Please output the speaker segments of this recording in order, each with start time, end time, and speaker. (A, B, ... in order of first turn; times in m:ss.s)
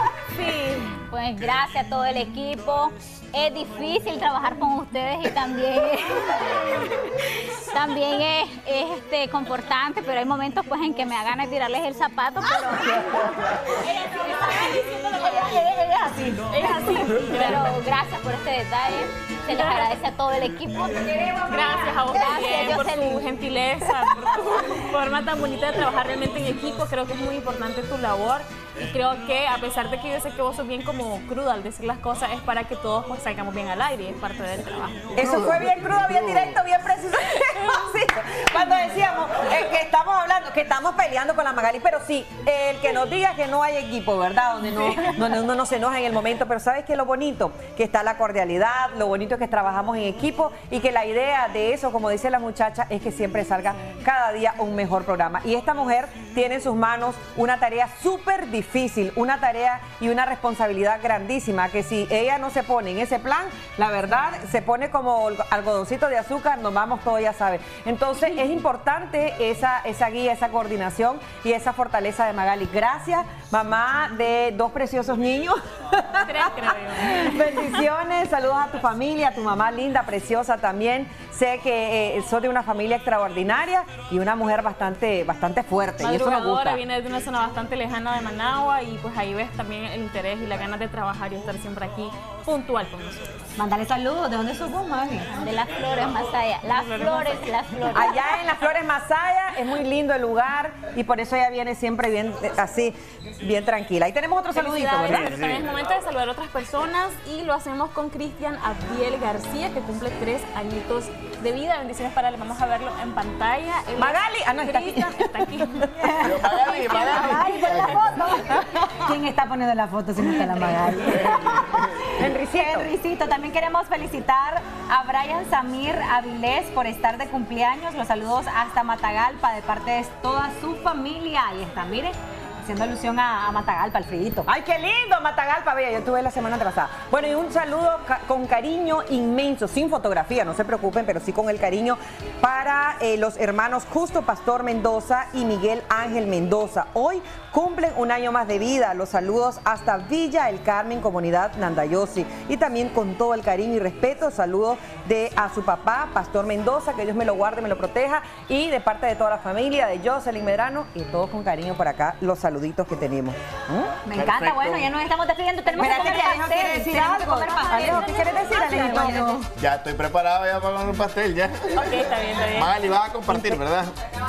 0:00.3-0:21.3 A
0:16.5-0:17.8 B
0:19.5-0:19.8 B
0:21.2-0:21.9 C
0:21.5-0:35.2 B
0:21.8-0:23.3 A
0:35.1-1:26.8 D
0:35.2-0:36.6 E
1:16.2-1:17.7 B
1:26.0-1:33.4 B
1:33.6-1:35.6 C
1:35.4-1:38.5 A
1:36.6-1:37.4 B
1:36.8-1:37.6 C
1:37.9-1:45.3 D
1:44.5-1:56.2 B
1:45.1-1:45.4 C
1:45.1-1:45.6 E
1:54.0-1:55.9 D
1:56.0-2:14.5 C
1:56.2-1:58.2 E
1:56.9-1:57.6 B
2:02.2-2:02.9 D
2:14.4-2:44.0 D
2:44.0-2:49.5 C
2:44.1-2:44.9 E
2:45.8-2:49.5 D
2:49.6-2:53.9 E
2:51.7-2:52.7 B